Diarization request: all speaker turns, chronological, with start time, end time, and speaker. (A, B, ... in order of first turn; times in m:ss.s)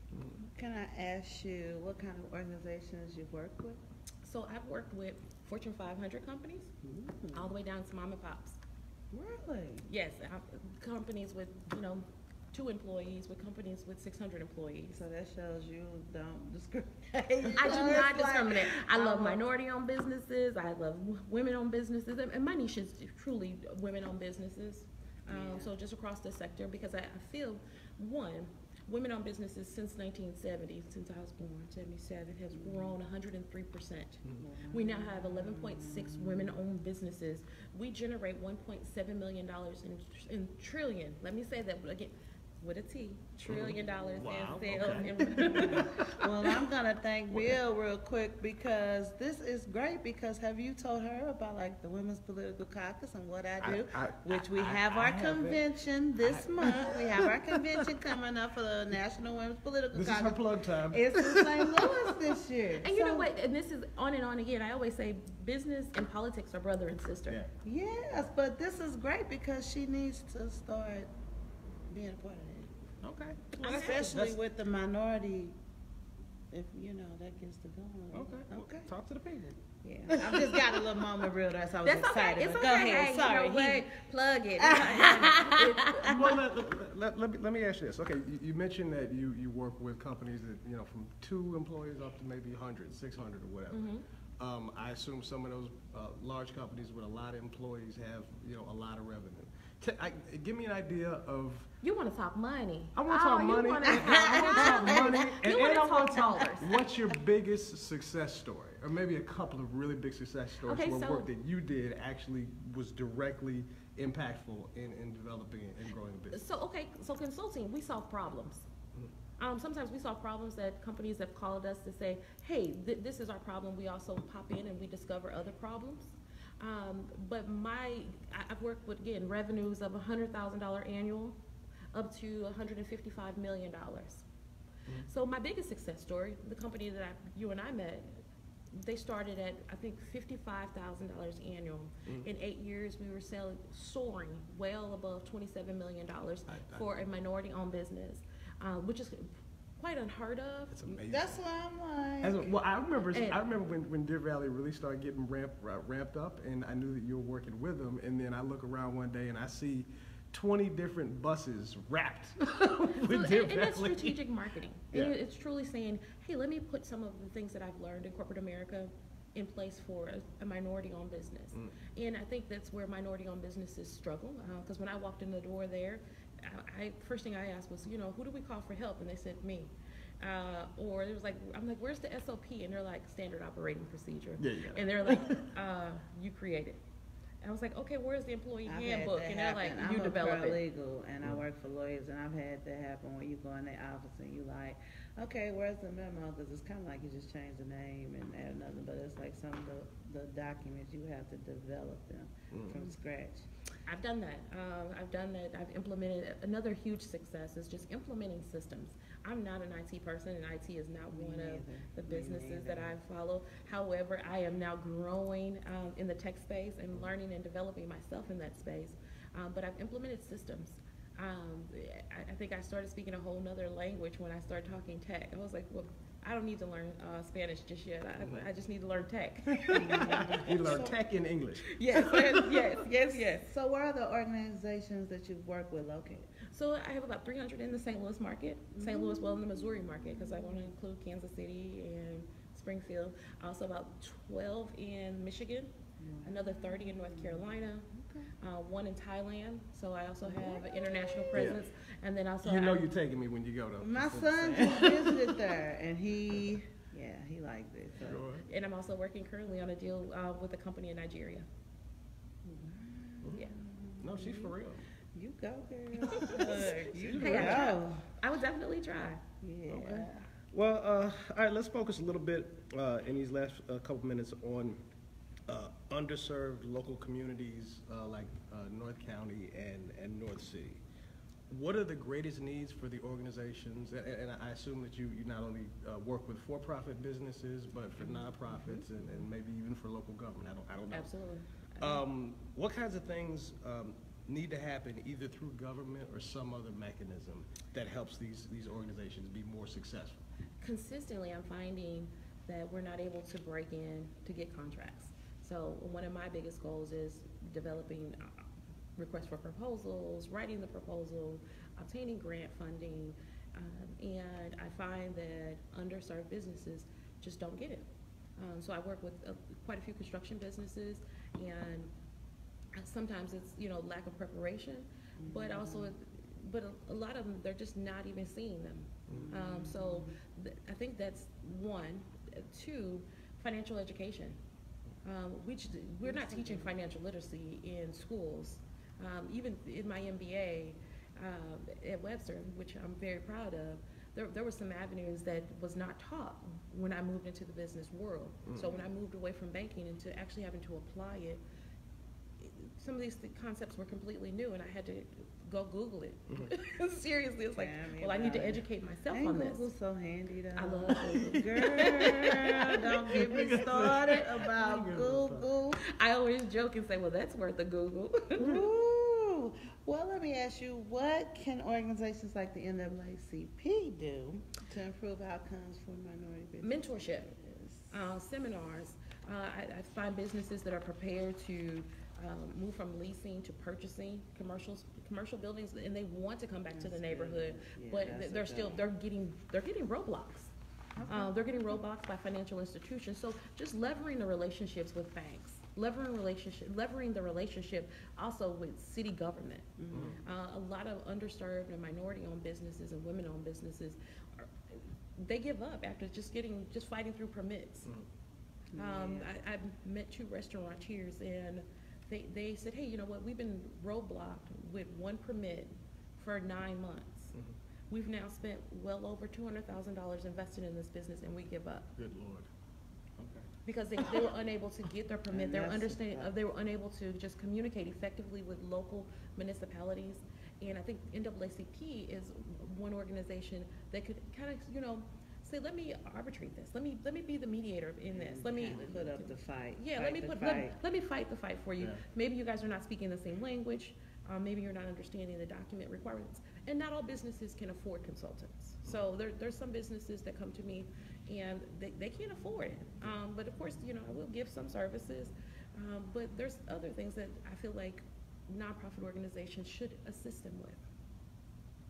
0:00.1-0:00.4 A
0:00.4-0:03.8 B
0:04.2-0:06.7 C
0:06.8-0:07.5 B
0:07.3-0:08.6 C
0:09.1-0:09.8 B
0:09.8-0:15.0 C
0:14.9-0:19.4 B
0:17.6-0:46.0 C
0:25.3-0:25.7 B
0:32.5-0:33.0 B
0:34.4-0:36.5 B
0:43.5-0:46.6 A
0:44.8-1:03.3 B
0:47.3-0:47.6 A
0:53.6-0:55.6 A
0:56.2-0:57.9 A
0:59.9-1:02.4 A
1:02.8-1:07.4 C
1:07.6-1:11.1 B
1:11.9-1:12.7 B
1:13.0-1:14.4 A
1:13.6-1:15.5 B
1:13.6-1:14.0 C
1:16.5-1:18.9 B
1:18.1-1:19.6 A
1:19.8-1:23.9 B
1:21.8-1:26.4 C
1:24.6-1:26.4 B
1:26.0-1:33.8 A
1:33.7-1:34.0 C
1:34.4-1:41.7 A
1:41.8-1:46.7 C
1:43.0-1:56.4 A
1:43.9-1:45.3 B
1:50.6-1:51.3 C
1:56.3-1:58.7 C
1:59.4-2:11.4 C
2:11.9-2:14.2 C
2:15.0-2:30.7 C
2:26.5-2:27.0 A
2:30.7-2:31.4 A
2:30.9-2:32.4 B
2:32.2-2:44.2 A
2:33.1-2:33.4 C
2:42.9-3:06.8 C
3:04.4-3:05.5 A
3:07.4-3:10.6 C
3:08.6-3:23.5 B
3:22.5-3:22.9 A
3:23.9-3:50.5 C
3:31.1-3:32.9 B
3:48.2-3:48.5 A
3:49.5-3:52.7 A
3:49.7-3:51.0 B
3:51.7-3:53.3 C
3:51.9-3:56.3 B
3:56.4-4:07.9 C
3:58.7-4:00.7 B
4:06.0-4:08.3 B
4:08.4-4:12.9 C
4:10.2-4:11.6 B
4:11.3-4:11.6 A
4:12.4-4:15.4 A
4:13.8-4:18.2 B
4:18.0-4:18.4 A
4:18.4-4:21.5 C
4:22.4-4:24.5 B
4:24.0-4:24.8 A
4:25.1-4:28.0 B
4:26.1-4:27.8 A
4:26.2-4:29.2 C
4:29.4-4:30.2 B
4:29.7-4:34.8 A
4:35.5-4:40.8 A
4:41.5-4:51.1 A
4:50.9-4:52.0 C
4:51.8-5:00.2 A
5:00.6-5:08.4 C
5:09.0-5:21.9 C
5:22.7-5:34.4 C
5:25.2-5:25.9 B
5:29.1-5:30.1 B
5:35.0-5:51.4 C
5:36.0-5:36.7 B
5:48.4-5:48.8 A
5:52.4-5:59.7 C
5:57.5-6:05.8 B
6:00.5-6:03.0 C
6:01.3-6:02.4 A
6:03.1-6:05.5 A
6:05.8-6:08.6 C
6:08.4-6:17.9 B
6:16.6-6:17.3 C
6:17.9-6:30.5 C
6:26.7-6:28.8 B
6:31.0-6:31.7 B
6:31.1-6:39.7 C
6:39.8-6:40.2 B
6:39.9-6:40.2 A
6:40.2-6:47.9 C
6:48.7-6:49.3 B
6:48.7-6:57.3 C
6:57.9-7:01.9 C
7:02.0-7:02.5 A
7:03.2-7:03.5 A
7:03.6-7:40.8 C
7:05.3-7:06.3 B
7:18.1-7:20.8 B